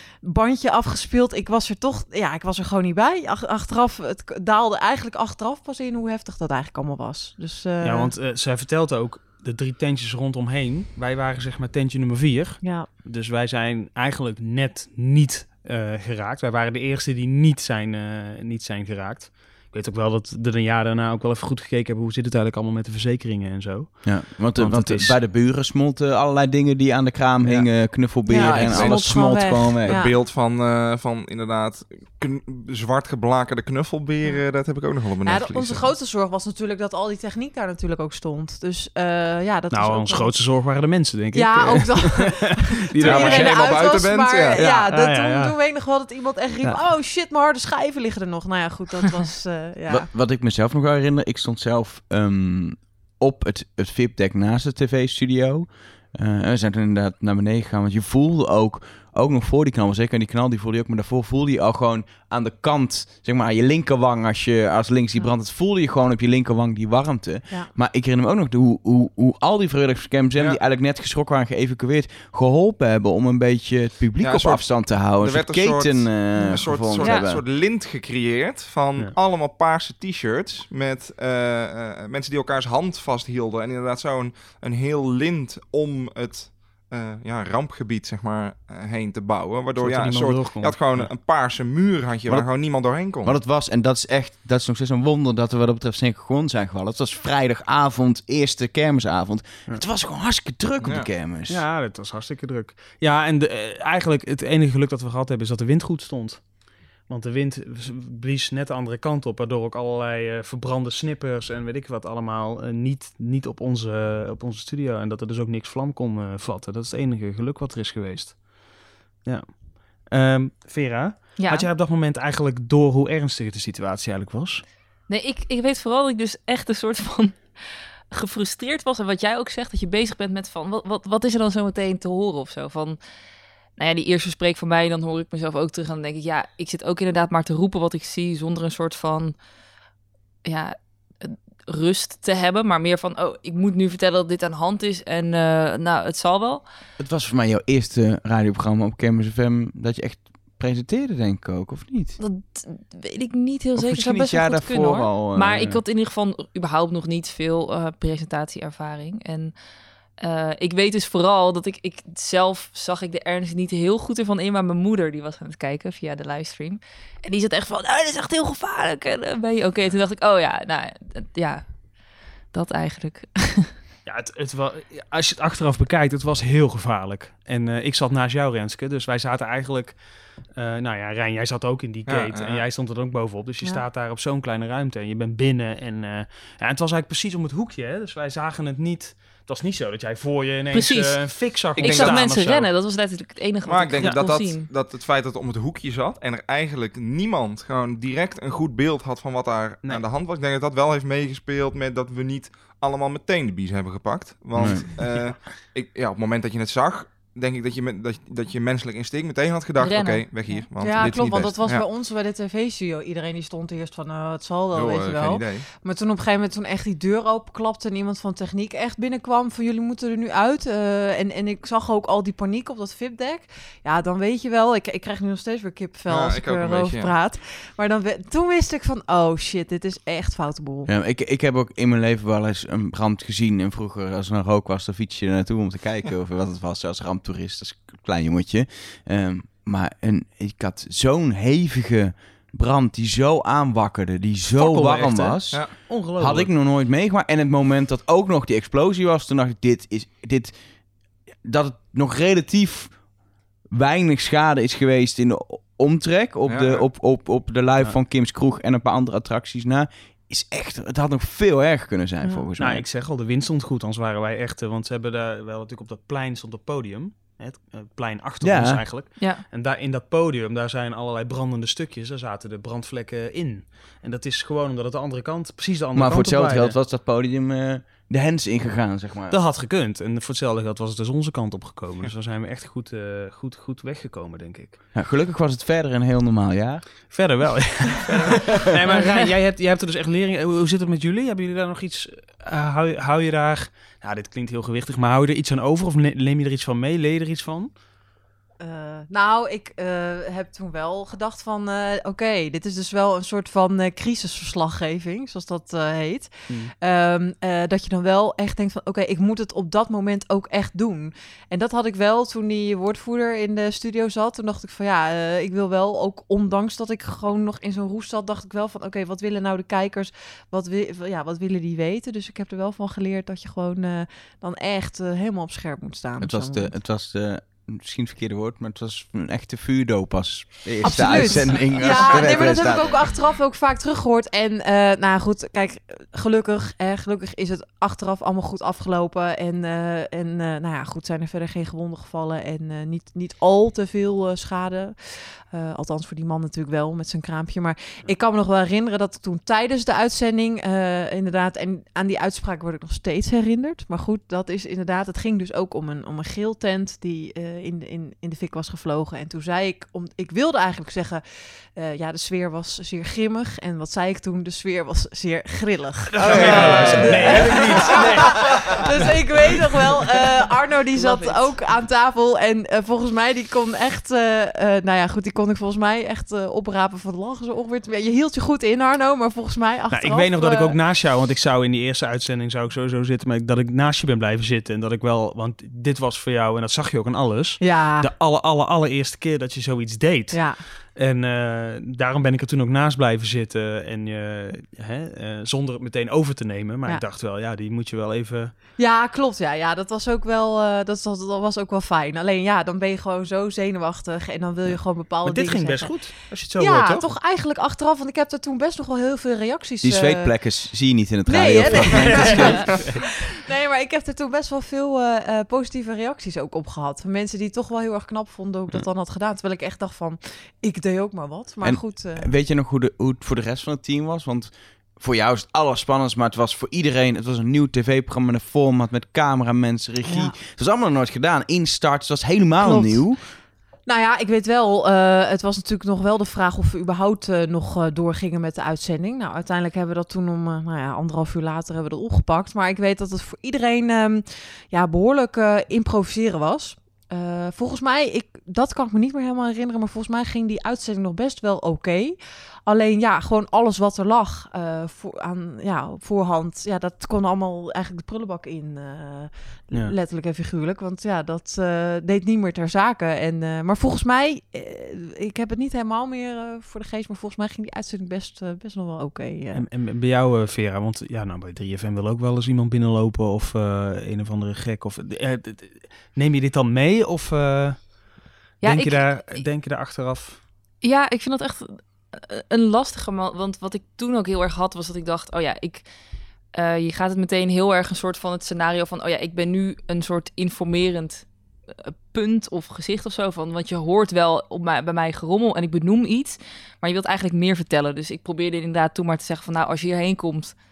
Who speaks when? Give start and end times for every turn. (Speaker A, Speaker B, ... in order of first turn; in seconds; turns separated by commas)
Speaker A: 0.2-8.1, Speaker B: 7.8-25.2, Speaker A: 12.6-12.9, Speaker C: 24.0-30.0, Speaker A: 28.2-30.1, Speaker D: 28.3-29.0, Speaker D: 29.9-35.9, Speaker A: 35.2-40.4, Speaker B: 39.7-43.5, Speaker A: 41.3-50.1, Speaker D: 43.0-44.6, Speaker C: 43.1-43.5, Speaker B: 44.5-45.5, Speaker C: 49.9-77.4, Speaker D: 74.2-93.4, Speaker E: 77.0-77.2, Speaker B: 89.8-91.1, Speaker C: 92.3-92.5, Speaker C: 93.2-101.6, Speaker D: 100.8-101.1, Speaker B: 101.5-118.4, Speaker B: 119.2-124.6, Speaker E: 121.4-121.7, Speaker E: 125.1-127.4, Speaker E: 128.1-133.0, Speaker E: 133.8-139.3, Speaker E: 140.4-146.6, Speaker C: 147.0-152.2, Speaker E: 152.2-159.5, Speaker C: 153.8-155.8, Speaker E: 160.2-171.6, Speaker E: 172.5-173.7, Speaker B: 174.0-180.0, Speaker B: 180.5-192.7, Speaker D: 182.1-182.6, Speaker E: 190.7-194.7, Speaker D: 191.8-192.2, Speaker D: 193.7-211.8, Speaker C: 204.6-204.9, Speaker E: 209.8-210.6, Speaker A: 210.8-230.9, Speaker D: 214.7-215.7, Speaker D: 226.1-227.1, Speaker C: 230.8-250.6, Speaker B: 244.6-246.5, Speaker C: 251.4-253.0, Speaker C: 253.7-262.8, Speaker D: 256.5-256.9, Speaker B: 262.6-276.8, Speaker C: 268.4-268.9, Speaker C: 275.9-279.4, Speaker B: 279.3-284.8, Speaker C: 284.9-286.9, Speaker B: 287.1-297.7, Speaker A: 298.6-326.7, Speaker C: 326.2-333.1, Speaker A: 330.8-361.2, Speaker B: 331.0-331.4, Speaker A: 361.8-380.8, Speaker B: 366.1-369.1, Speaker D: 366.2-367.4, Speaker B: 371.0-371.3, Speaker B: 379.9-398.5, Speaker A: 387.6-388.1, Speaker A: 390.3-390.6, Speaker A: 398.8-410.5, Speaker B: 404.6-407.1, Speaker C: 409.8-412.8, Speaker A: 411.2-422.3, Speaker B: 411.6-413.0, Speaker C: 421.6-433.2, Speaker A: 430.0-430.4, Speaker A: 432.6-433.1, Speaker A: 433.9-469.6, Speaker B: 469.5-477.9, Speaker E: 478.6-479.4, Speaker B: 478.6-480.4, Speaker E: 480.8-485.9, Speaker E: 486.5-491.2, Speaker E: 491.8-500.6